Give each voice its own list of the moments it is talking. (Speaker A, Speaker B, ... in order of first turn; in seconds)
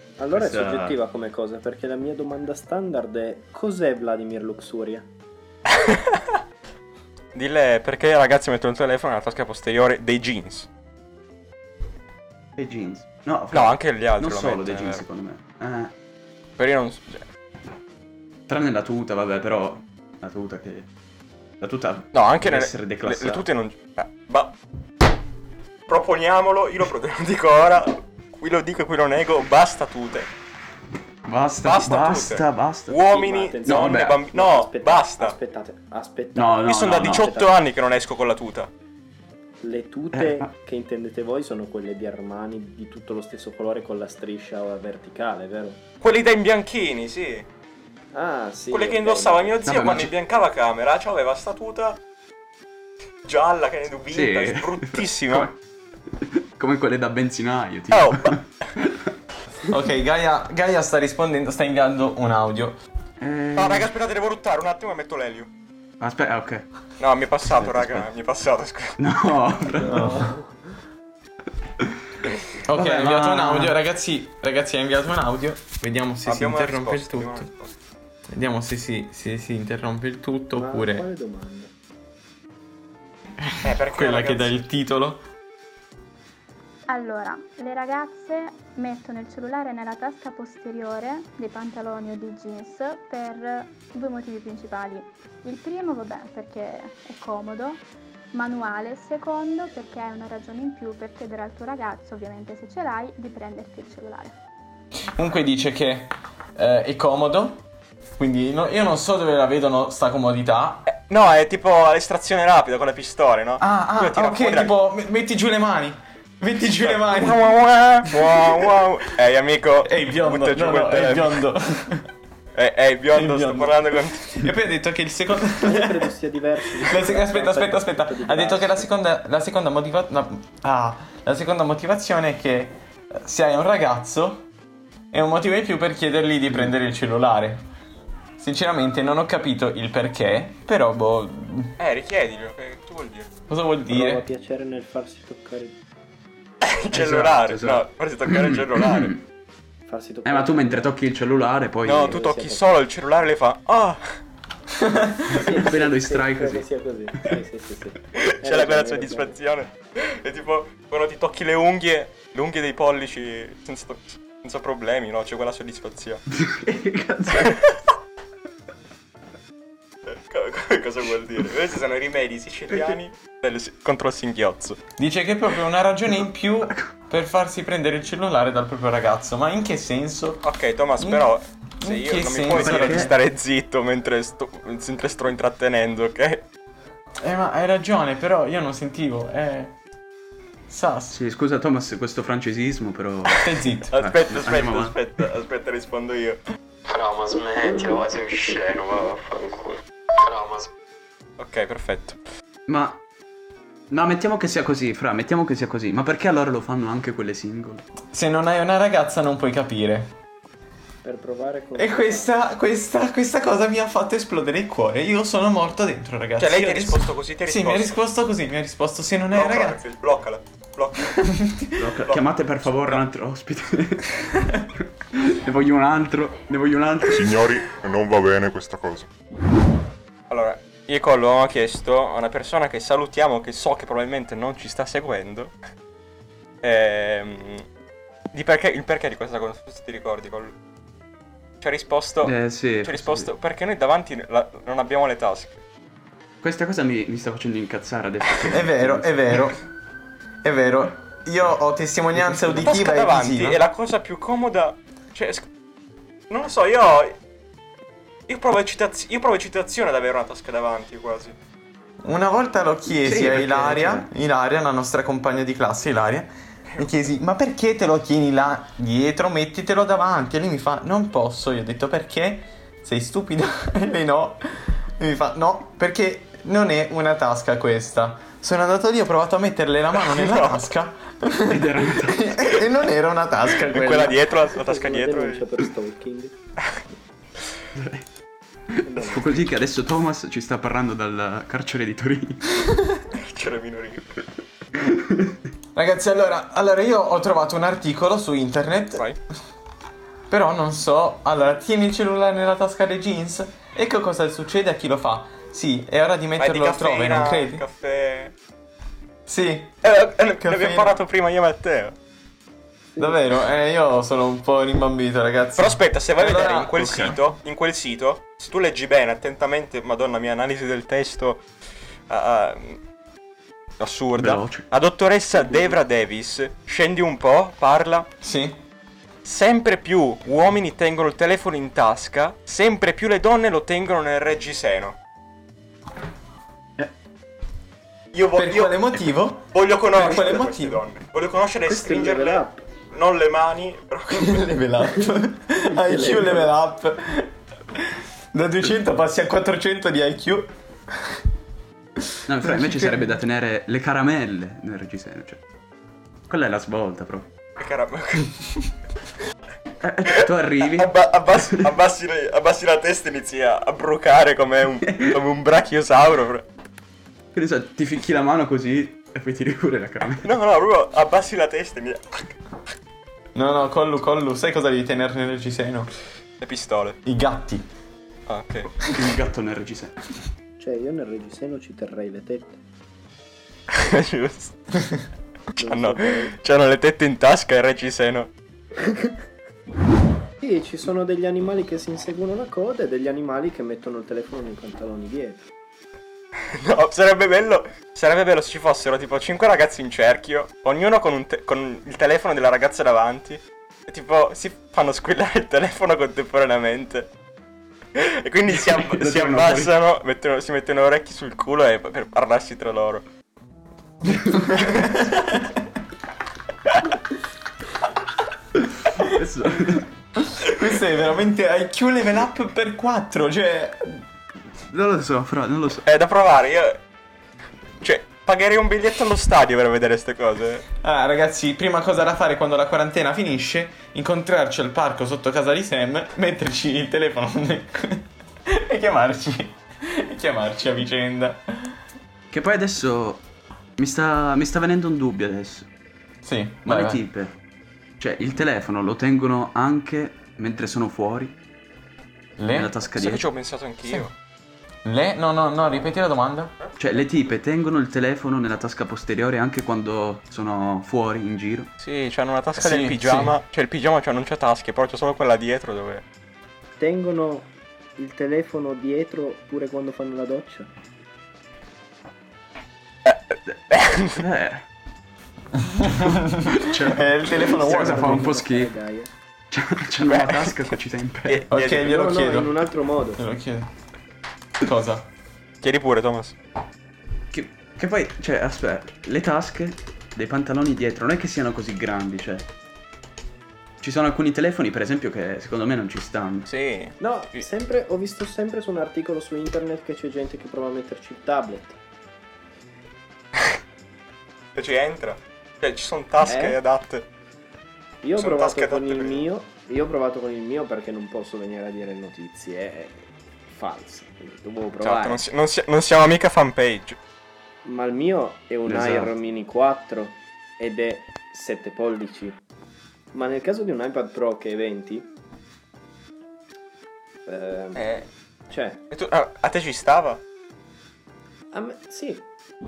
Speaker A: 0.2-5.1, 33.1-37.6, 39.6-45.8, 48.1-49.6, 69.8-70.6, 80.5-81.7, 125.6-128.9, 143.9-145.8, 149.9-150.9, 152.1-152.6, 155.1-159.4, 211.0-212.3, 284.6-286.3, 288.8-289.5, 312.9-313.2, 325.4-325.8, 341.7-342.6, 345.8-346.5, 380.6-382.6, 385.6-386.3, 390.4-395.5, 466.8-470.7, 477.4-479.1, 481.7-483.2, 497.0-501.8, 506.2-506.6, 508.0-515.2, 517.6-522.4, 523.1-525.1, 527.3-528.0, 528.5-528.8, 531.5-532.2
Speaker B: 0.3-1.0, 12.6-15.9, 18.5-20.9, 21.6-23.4, 31.3-33.0, 33.6-34.2, 36.4-37.3, 40.1-40.5, 49.6-50.1, 54.1-55.5, 56.2-59.0, 63.2-63.9, 66.0-66.7, 67.5-68.1, 69.0-70.2, 72.7-73.8, 146.9-149.2, 150.2-152.2, 155.3-156.7, 166.3-167.6, 182.5-183.1, 191.1-195.0, 202.7-203.0, 203.9-207.8, 221.8-224.3, 225.1-227.4, 242.2-243.3, 246.4-249.4, 252.2-252.5, 263.0-264.1, 281.5-282.4, 287.8-288.1, 288.7-292.5, 294.8-295.4, 316.8-317.2, 324.2-324.7, 352.3-355.4, 356.3-357.3, 359.8-361.6, 364.9-365.1, 367.3-370.3, 378.9-380.0, 408.5-409.7, 414.1-414.5, 418.9-419.9, 424.7-425.8, 442.3-443.2, 443.8-445.7, 446.6-447.3, 448.0-451.4, 452.5-453.2, 456.8-461.7, 474.1-474.6, 476.4-478.7, 479.5-481.4, 487.3-492.5, 493.8-496.5, 518.7-519.1
Speaker C: 5.7-6.4, 7.3-10.7, 13.5-15.0, 16.6-17.2, 22.1-24.5, 25.9-30.3, 31.6-35.4, 36.7-38.7, 46.0-47.5, 48.7-52.0, 53.2-55.5, 57.9-58.4, 63.6-65.5, 67.0-69.0, 76.2-77.7, 83.6-84.6, 110.9-114.7, 116.8-121.4, 122.5-124.4, 141.8-143.3, 146.6-149.2, 151.8-154.0, 158.1-166.2, 167.4-167.7, 170.3-174.8, 180.4-186.4, 193.9-196.4, 201.4-202.2, 216.4-218.0, 219.3-221.3, 222.1-223.0, 230.3-235.5, 236.6-237.6, 238.3-240.6, 241.6-245.6, 252.6-255.5, 256.3-257.2, 258.3-261.4, 279.9-280.7, 283.7-285.5, 293.1-294.1, 306.4-308.3, 309.8-311.9, 315.6-321.4, 322.1-322.8, 323.8-328.1, 329.2-335.0, 338.1-338.8, 339.5-344.6, 357.6-358.7, 360.1-366.4, 370.2-372.3, 376.4-377.0, 378.3-378.8, 383.7-384.6, 385.6-388.3, 396.5-407.1, 407.9-413.1, 414.3-415.1, 425.9-426.8, 427.8-430.6, 452.9-454.1, 461.8-466.0, 473.7-474.2, 480.1-480.5, 481.3-481.9, 485.6-486.4, 496.5-497.5, 504.6-507.0, 508.2-509.3, 514.8-517.0, 527.8-528.0, 528.9-530.2
Speaker D: 59.7-62.8, 69.9-70.3, 72.7-77.5, 78.3-81.1, 83.4-85.2, 105.2-107.7, 108.2-110.9, 113.6-117.5, 118.1-118.7, 119.8-122.1, 123.1-126.1, 126.7-134.4, 135.1-137.6, 138.4-141.7, 143.5-144.2, 175.0-180.5, 181.0-181.3, 181.8-183.1, 187.2-189.8, 190.7-191.2, 193.3-193.9, 208.1-210.1, 211.8-219.8, 221.2-221.7, 248.5-249.6, 250.4-253.6, 262.0-284.3, 295.8-299.1, 300.3-307.6, 309.3-309.9, 310.4-311.0, 313.0-317.1, 328.2-328.6, 338.3-340.8, 344.1-350.5, 352.5-353.0, 373.3-375.9, 377.1-377.7, 414.5-415.2, 420.3-424.0, 430.8-441.8, 446.2-447.0, 452.4-452.8, 454.8-456.5, 462.6-463.4, 475.7-478.4, 481.5-483.7, 484.6-485.1
Speaker E: 86.9-97.8, 98.3-104.3
Speaker F: 196.9-200.7
Speaker G: 227.1-229.1